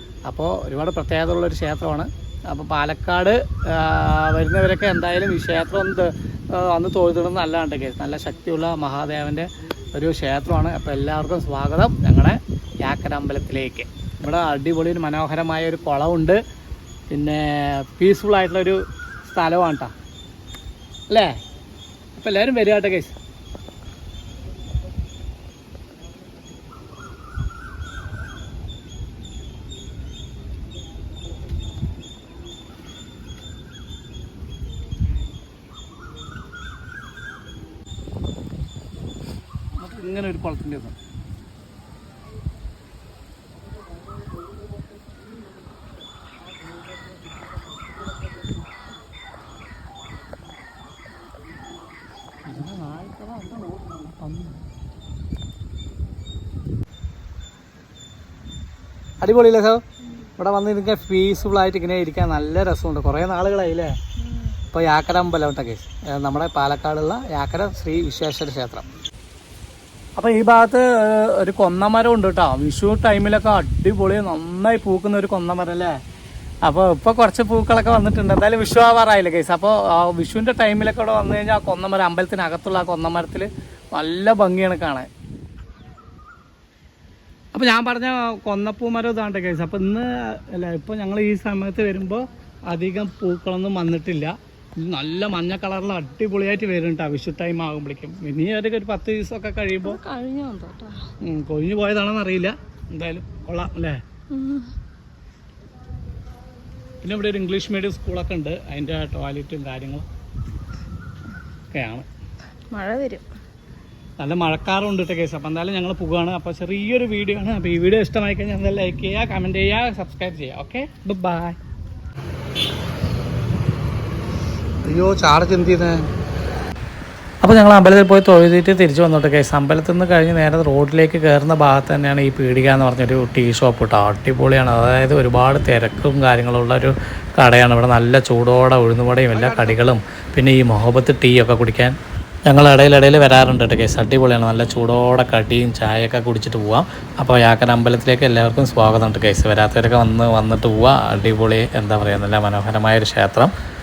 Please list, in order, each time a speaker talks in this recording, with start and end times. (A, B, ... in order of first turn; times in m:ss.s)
0:00.3-0:16.4 A
0:17.1-0:19.9 A
0:22.1-0:23.2 A
0:39.8-0:41.0 A
0:52.4-0:54.6 A
0:59.2-0:59.8 A
1:00.4-1:03.9 A
1:04.2-1:04.6 B
1:04.7-1:08.8 A
1:10.2-1:16.0 A
1:16.6-1:25.1 A
1:27.5-1:40.0 A
1:39.8-1:41.0 B
1:41.2-1:44.0 A
1:44.3-1:44.7 B
1:47.0-1:50.0 A
1:51.7-1:52.1 A
1:52.7-1:53.3 B
1:54.2-2:01.6 A
2:04.8-2:06.0 A
2:07.4-2:33.5 A